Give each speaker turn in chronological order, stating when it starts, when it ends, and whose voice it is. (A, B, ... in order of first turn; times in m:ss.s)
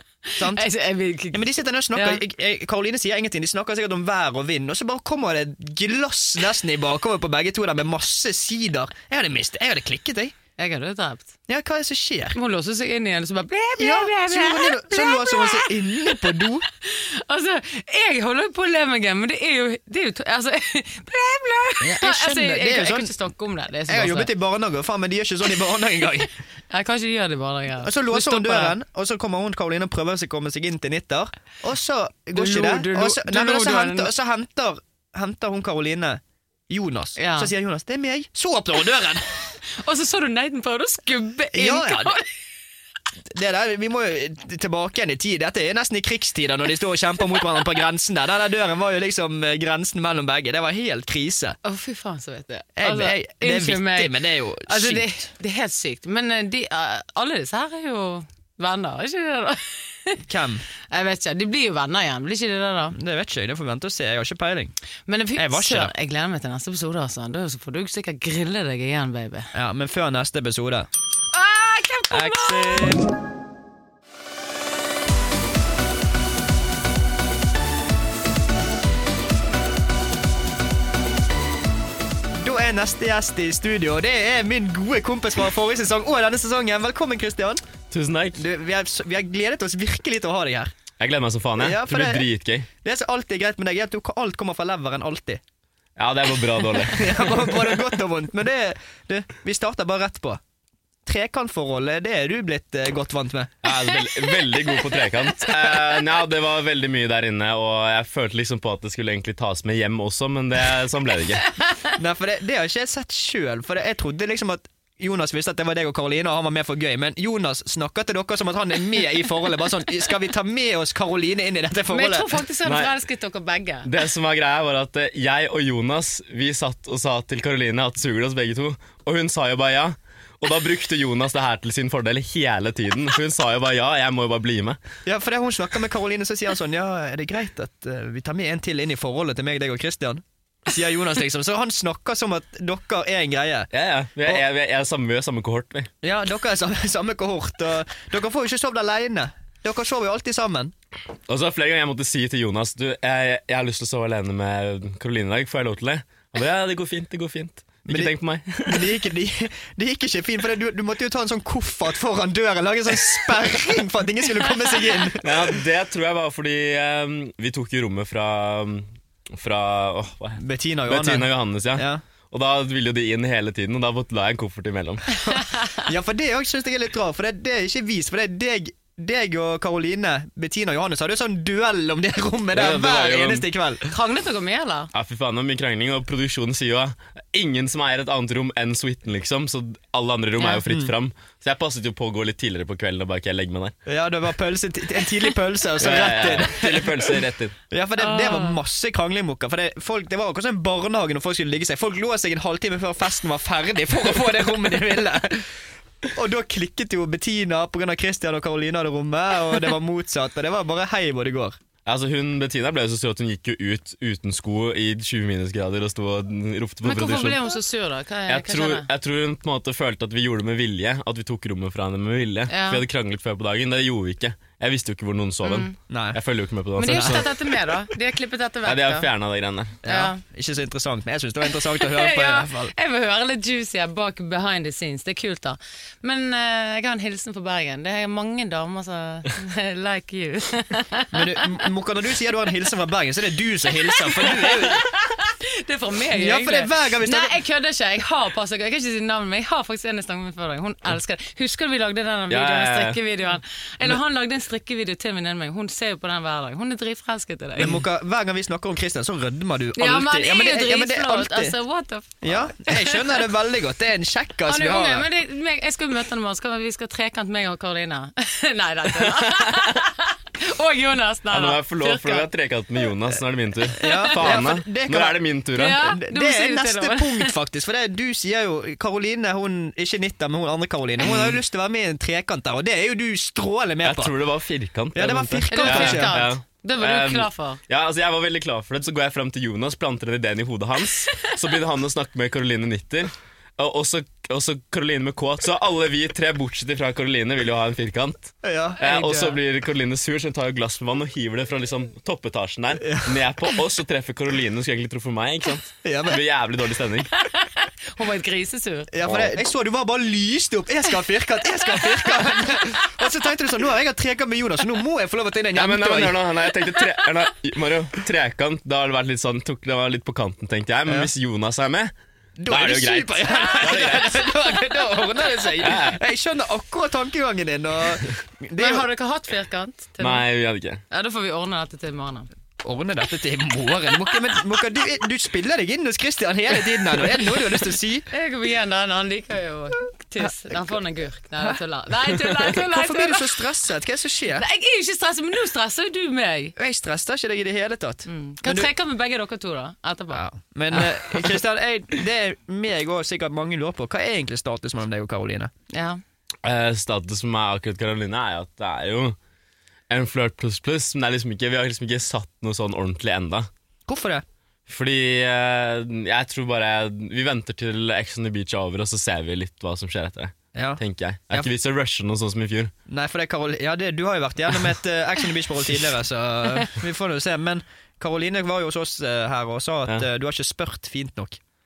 0:00.3-0:02.2 A
0:00.4-0:00.6 B
0:01.3-0:10.3 B
0:10.6-0:11.3 A
0:11.5-0:12.4 B
0:12.3-0:24.3 A
0:13.8-0:16.7 B
0:21.8-0:23.1 B
0:23.9-0:26.3 B
0:26.7-0:28.8 A
0:27.8-0:39.2 B
0:32.3-0:34.1 A
0:37.2-0:37.5 A
0:39.6-0:42.3 A
0:41.5-0:42.2 B
0:43.3-0:51.6 B
0:51.6-1:00.2 A
0:52.8-0:55.1 B
1:00.2-1:00.6 B
1:00.9-1:03.0 A
1:02.9-1:04.7 B
1:05.1-1:09.5 A
1:05.4-1:05.9 B
1:09.5-1:10.9 B
1:11.3-1:13.0 A
1:12.1-1:13.1 B
1:22.4-1:27.6 B
1:27.9-1:28.4 C
1:28.4-1:30.7 B
1:31.0-1:32.7 C
1:31.6-1:35.4 B
1:36.0-1:37.7 C
1:36.9-1:40.4 B
1:41.0-1:43.6 B
1:43.6-1:51.5 C
1:51.6-1:51.9 A
1:51.9-2:02.4 B
2:01.9-2:03.9 A
2:02.6-2:02.9 C
2:03.8-2:14.8 C
2:15.0-2:23.7 B
2:23.7-2:25.9 C
2:26.0-2:30.7 B
2:31.3-2:38.9 C
2:37.9-2:38.1 B
2:38.6-2:45.6 B
2:45.2-2:55.4 C
2:50.4-2:52.0 B
2:55.8-3:03.9 B
3:02.5-3:03.4 C
3:03.9-3:04.9 A
3:04.9-3:13.7 C
3:10.6-3:10.9 B
3:13.8-3:25.5 B
3:15.8-3:17.5 C
3:18.0-3:18.6 A
3:26.1-3:31.6 B
3:31.8-3:37.4 C
3:36.8-3:38.9 A
3:38.3-3:47.3 C
3:42.5-3:42.8 A
3:45.4-3:45.7 A
3:45.9-3:46.2 B
3:46.8-3:49.1 A
3:46.8-3:47.2 B
3:48.6-3:49.8 C
3:49.8-3:52.7 B
3:49.8-3:50.2 A
3:51.6-4:01.5 A
4:01.1-4:04.9 B
4:03.9-4:17.8 A
4:06.1-4:07.4 B
4:12.3-4:13.0 C
4:17.6-4:21.6 B
4:19.8-4:23.2 A
4:22.2-4:25.1 B
4:24.4-4:32.3 A
4:29.0-4:29.6 C
4:31.3-4:35.8 C
4:33.8-4:34.4 A
4:33.8-4:35.2 B
4:35.6-4:37.3 A
4:35.8-4:44.1 B
4:41.0-4:41.4 C
4:43.8-5:07.1 C
4:44.9-4:46.2 B
4:45.5-4:47.6 A
4:58.4-4:58.8 B
4:58.8-4:59.4 A
5:02.8-5:03.2 B
5:05.8-5:06.2 B
5:07.1-5:08.9 A
5:08.9-5:16.2 B
5:09.0-5:09.4 C
5:11.6-5:13.0 A
5:15.5-5:21.9 C
5:20.8-5:21.1 B
5:22.4-5:28.8 B
5:22.5-5:24.3 C
5:25.6-5:26.0 C
5:28.6-5:30.2 A
5:30.0-5:30.8 C
5:30.9-5:32.3 A
5:32.6-5:38.1 B
5:38.1-5:43.4 A
5:42.2-5:44.4 B
5:44.3-5:46.5 A
5:46.6-5:48.7 B
5:48.0-5:50.2 A
5:50.1-5:55.5 B
5:55.7-5:56.0 A
5:56.4-5:59.2 C
5:59.9-6:03.5 C
6:03.9-6:04.2 B
6:04.7-6:12.7 C
6:10.5-6:11.5 B
6:12.9-6:21.4 B